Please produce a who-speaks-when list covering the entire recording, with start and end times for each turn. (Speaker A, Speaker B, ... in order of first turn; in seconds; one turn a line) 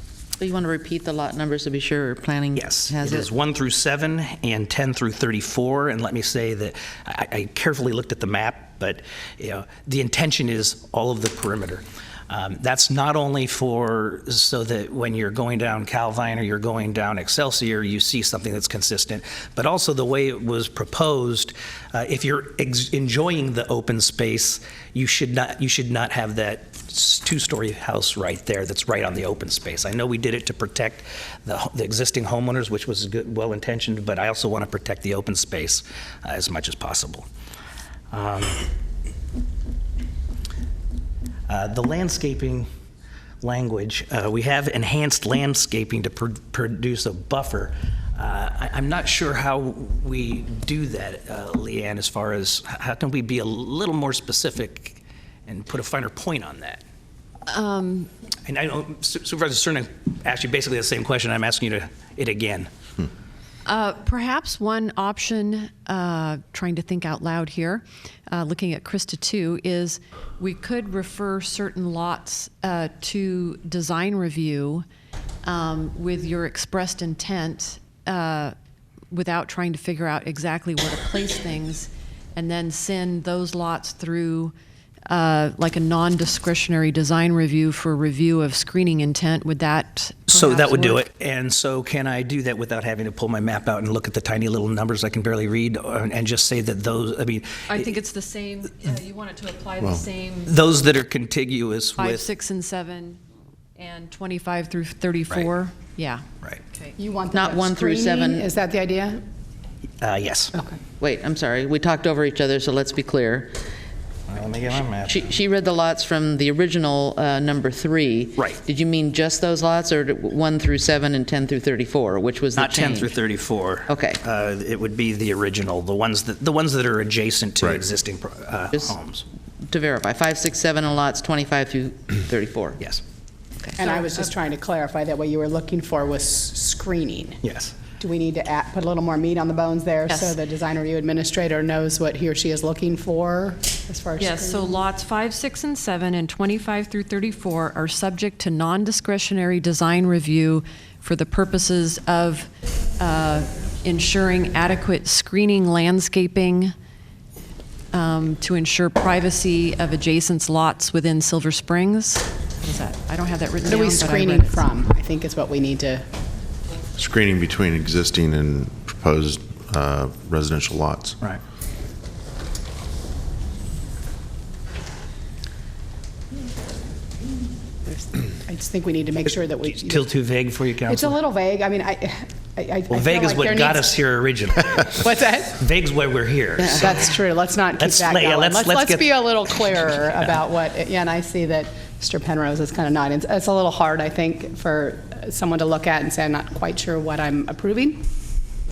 Speaker A: 0.4-3.2
Speaker B: 2.5-37.3
Speaker B: 38.1-38.6
Speaker B: 41.5-42.7
Speaker B: 43.4-56.8
Speaker C: 57.5-58.1
Speaker B: 58.5-62.7
Speaker C: 63.6-74.8
Speaker C: 75.5-78.5
Speaker C: 79.1-84.5
Speaker C: 85.1-91.0
Speaker B: 90.3-97.9
Speaker C: 97.7-100.5
Speaker B: 100.4-102.2
Speaker C: 102.0-103.2
Speaker C: 103.8-106.9
Speaker D: 107.0-109.2
Speaker A: 107.3-108.5
Speaker B: 110.0-110.5
Speaker A: 111.0-113.6
Speaker B: 114.3-115.3
Speaker A: 114.7-123.2
Speaker B: 122.5-129.2
Speaker A: 123.9-124.2
Speaker A: 129.6-132.8
Speaker D: 133.8-137.4
Speaker B: 137.4-137.8
Speaker D: 138.0-144.8
Speaker C: 140.1-140.3
Speaker C: 144.2-156.7
Speaker C: 157.9-164.7
Speaker D: 163.6-166.0
Speaker E: 166.9-171.2
Speaker D: 178.3-180.0
Speaker B: 179.6-181.2
Speaker D: 180.9-184.0
Speaker B: 182.9-187.1
Speaker D: 184.8-185.6
Speaker D: 186.7-198.0
Speaker B: 187.8-189.1